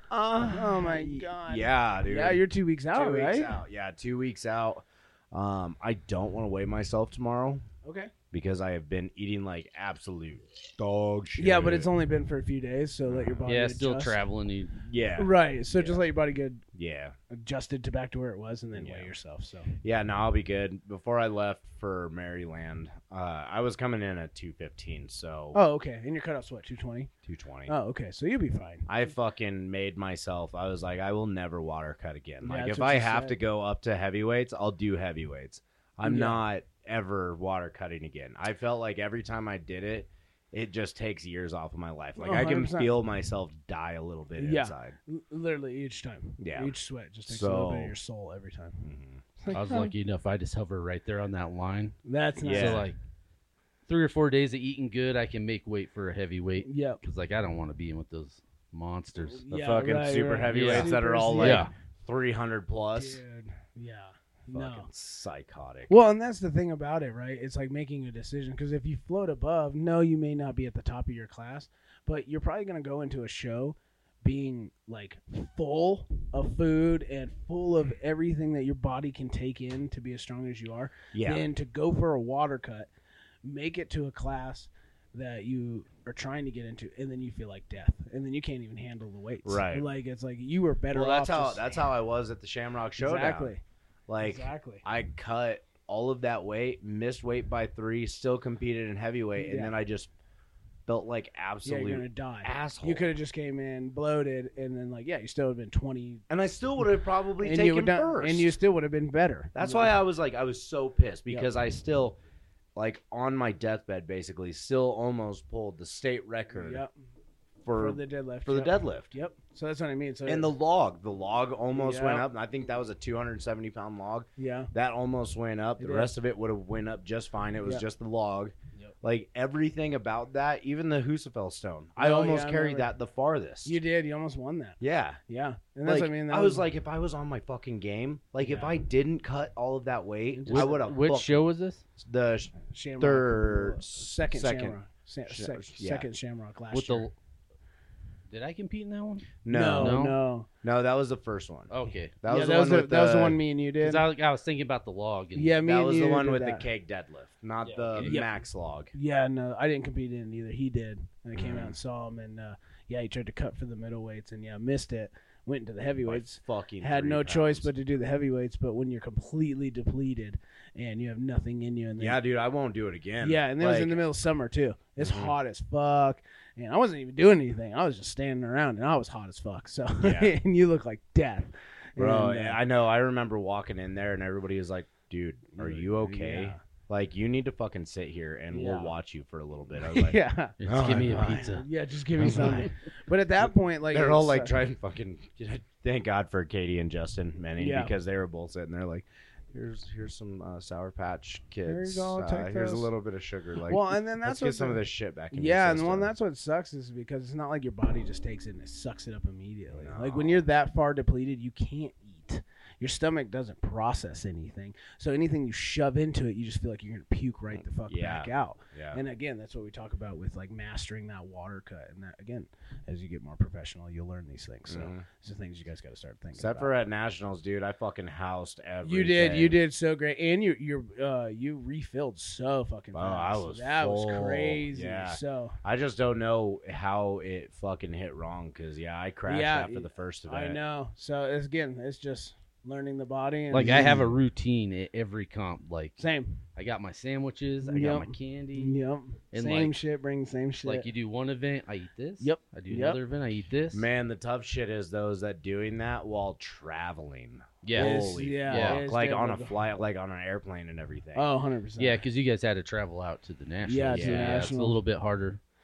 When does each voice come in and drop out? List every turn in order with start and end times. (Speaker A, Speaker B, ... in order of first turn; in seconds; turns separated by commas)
Speaker A: 0.1-7.6, Speaker B: 0.4-3.6, Speaker B: 7.8-8.1, Speaker A: 8.3-11.9, Speaker B: 11.4-14.2, Speaker A: 13.1-13.4, Speaker C: 13.5-14.8, Speaker A: 14.8-16.1, Speaker B: 15.2-16.6, Speaker A: 16.7-17.1, Speaker B: 17.3-19.7, Speaker A: 18.8-19.1, Speaker A: 19.8-25.6, Speaker B: 25.5-27.1, Speaker A: 27.2-27.7, Speaker B: 27.7-28.9, Speaker A: 28.9-45.0, Speaker B: 32.4-33.4, Speaker B: 36.0-36.4, Speaker B: 42.2-43.0, Speaker B: 44.4-48.8, Speaker A: 46.4-46.8, Speaker A: 47.3-48.0, Speaker A: 48.8-49.2, Speaker B: 49.4-49.9, Speaker C: 49.5-52.0, Speaker B: 52.0-52.9, Speaker A: 52.4-52.9, Speaker C: 52.5-53.0, Speaker C: 53.9-59.4, Speaker B: 56.6-57.0, Speaker B: 59.3-61.7, Speaker A: 59.5-63.2, Speaker C: 60.5-61.7, Speaker B: 63.0-64.9, Speaker A: 64.5-65.9, Speaker B: 65.9-82.9, Speaker A: 81.1-81.5, Speaker B: 83.4-91.8, Speaker A: 89.5-89.9, Speaker A: 90.9-93.5, Speaker B: 93.0-93.6, Speaker A: 94.1-100.1, Speaker B: 94.2-94.8, Speaker B: 99.4-99.7, Speaker A: 100.9-103.1, Speaker B: 101.6-106.2, Speaker A: 106.3-108.5, Speaker B: 107.4-110.0, Speaker A: 109.5-112.2, Speaker A: 112.8-116.8, Speaker B: 116.5-116.9, Speaker A: 117.6-119.1, Speaker B: 117.8-120.5, Speaker A: 120.3-133.8, Speaker B: 121.7-122.3, Speaker B: 124.4-124.7, Speaker B: 125.8-126.1, Speaker B: 132.0-132.9, Speaker B: 133.7-136.7, Speaker A: 134.8-135.2, Speaker A: 135.8-141.4, Speaker B: 138.4-138.8, Speaker B: 140.3-140.8, Speaker C: 140.5-141.8, Speaker A: 142.0-146.1, Speaker B: 142.7-147.1, Speaker C: 146.7-147.1, Speaker C: 148.3-150.2, Speaker A: 149.4-150.0, Speaker B: 149.5-150.5, Speaker A: 150.6-153.4, Speaker C: 151.7-152.2, Speaker B: 152.3-154.1, Speaker C: 153.8-155.6, Speaker B: 155.3-156.7, Speaker A: 155.6-158.9, Speaker C: 157.7-158.2, Speaker B: 158.0-158.3, Speaker B: 158.9-172.2, Speaker A: 161.3-161.7, Speaker A: 166.0-167.7, Speaker A: 172.0-174.0, Speaker B: 173.2-182.6, Speaker A: 175.0-175.3, Speaker A: 180.0-180.3, Speaker A: 182.0-191.6, Speaker B: 185.6-186.6, Speaker B: 188.5-188.9, Speaker B: 189.8-194.6, Speaker C: 190.6-191.7, Speaker A: 192.2-192.7, Speaker C: 192.2-192.7, Speaker A: 193.9-206.1, Speaker B: 197.6-197.9, Speaker B: 201.7-202.9, Speaker B: 203.7-226.7, Speaker A: 209.7-210.4, Speaker A: 217.9-219.0, Speaker A: 224.7-225.1, Speaker A: 226.4-229.6, Speaker B: 228.8-235.6, Speaker A: 232.9-240.6, Speaker B: 239.3-244.2, Speaker C: 243.5-246.0, Speaker B: 246.0-246.4, Speaker C: 246.6-248.8, Speaker B: 247.6-250.9, Speaker C: 249.3-249.8, Speaker C: 250.6-253.9, Speaker B: 252.2-253.0, Speaker A: 253.7-261.3, Speaker C: 257.6-258.8, Speaker B: 257.8-259.6, Speaker B: 261.1-262.0, Speaker C: 261.8-265.4, Speaker B: 263.6-264.8, Speaker A: 263.9-264.5